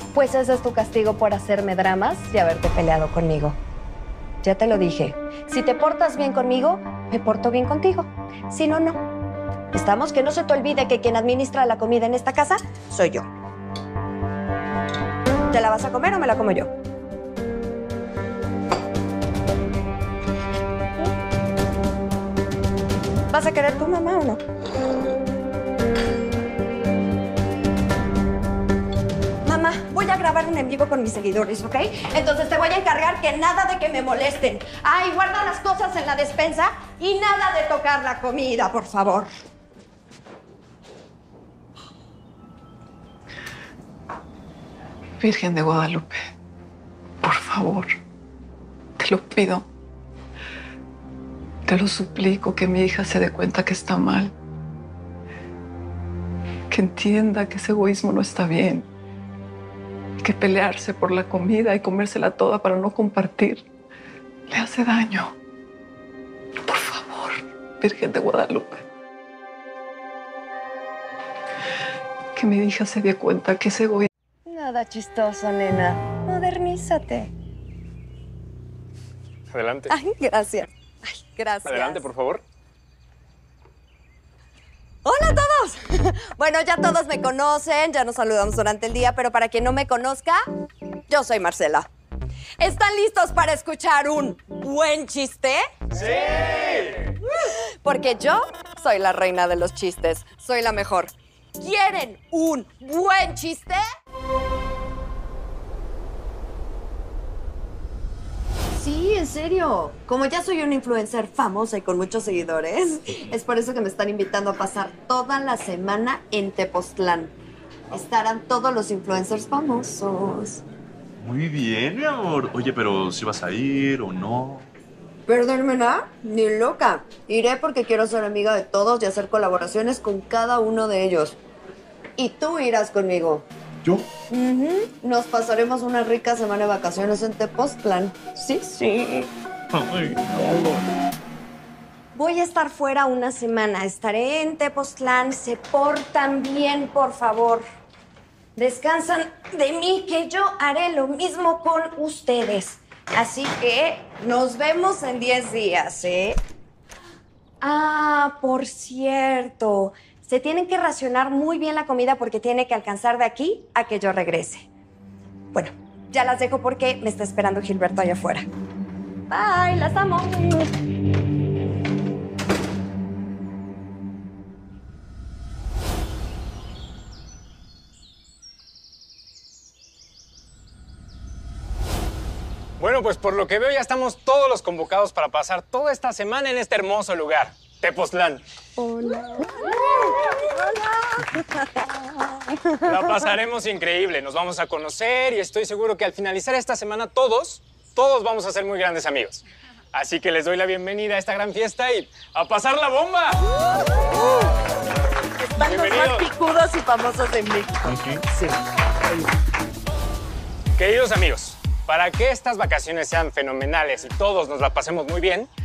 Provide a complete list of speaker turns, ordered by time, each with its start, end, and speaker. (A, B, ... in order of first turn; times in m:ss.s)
0:00.1-0:03.6 A
0:04.4-0:09.0 A
0:09.7-0:13.3 A
0:15.5-0:16.7 A
0:23.3-0:24.4 A
0:29.4-0:39.3 A
0:45.2-0:46.3 B
0:47.2-0:48.0 B
0:49.0-0:49.7 B
0:51.7-0:54.3 B
0:56.7-0:58.9 B
1:00.2-1:03.6 B
1:04.5-1:05.3 B
1:06.7-1:08.8 B
1:12.3-1:14.1 B
1:14.5-1:17.3 A
1:19.5-1:19.9 C
1:19.9-1:22.0 A
1:21.6-1:22.4 C
1:25.0-1:30.4 A
1:31.1-1:31.9 A
1:32.6-1:35.6 A
1:37.3-1:43.8 A
1:48.7-1:57.4 A
1:57.9-2:00.6 A
2:01.2-2:04.7 D
2:05.3-2:11.4 A
2:12.2-2:13.5 A
2:14.3-2:19.3 A
2:19.7-2:20.8 D
2:22.2-2:27.6 A
2:28.6-2:36.4 A
2:37.6-2:44.7 A
2:45.5-2:48.5 A
2:49.3-2:50.7 A
3:02.8-3:08.4 C
3:08.8-3:13.0 A
3:12.8-3:23.4 C
3:25.4-3:28.6 A
3:25.6-3:26.3 C
3:27.9-3:28.2 D
3:30.8-3:35.5 C